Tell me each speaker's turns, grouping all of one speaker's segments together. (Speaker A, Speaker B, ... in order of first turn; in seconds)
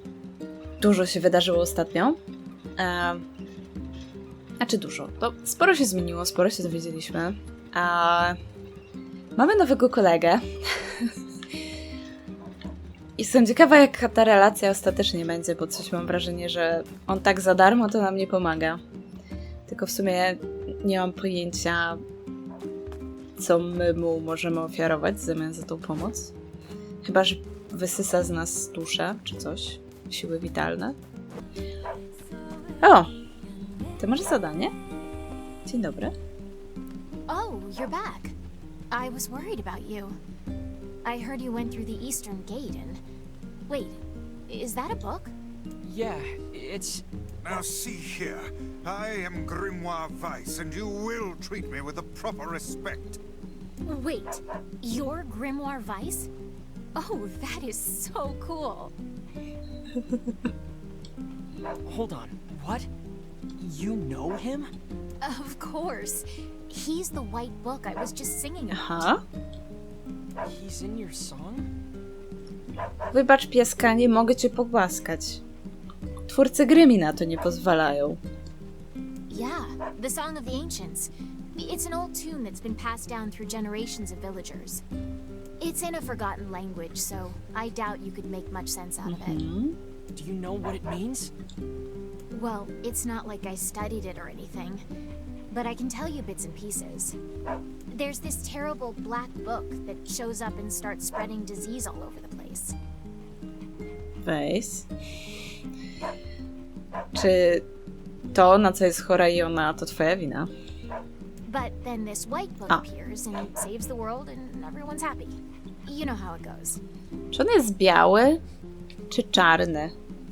Speaker A: 0.8-2.2, 2.8-3.2, 4.6-8.4, 9.3-11.1, 13.2-18.8, 19.7-22.0, 23.4-26.3, 27.0-31.0, 32.8-33.1, 34.0-34.7, 35.6-36.1, 68.7-69.2, 73.1-75.4, 76.3-78.2, 89.0-89.8, 104.2-104.9, 107.1-107.6, 108.3-110.5, 117.3-118.4, 119.1-119.9
Speaker B: 37.3-38.4, 38.9-40.2, 41.0-43.0, 43.7-45.3, 53.8-56.3, 56.9-58.9, 65.2-69.1, 79.3-84.8, 85.6-89.4, 92.3-94.8, 95.5-97.2, 97.9-102.8, 111.5-116.8
Speaker C: 45.8-47.0, 61.9-62.9, 63.6-64.7, 70.4-71.7, 90.1-91.3
Speaker D: 47.4-53.2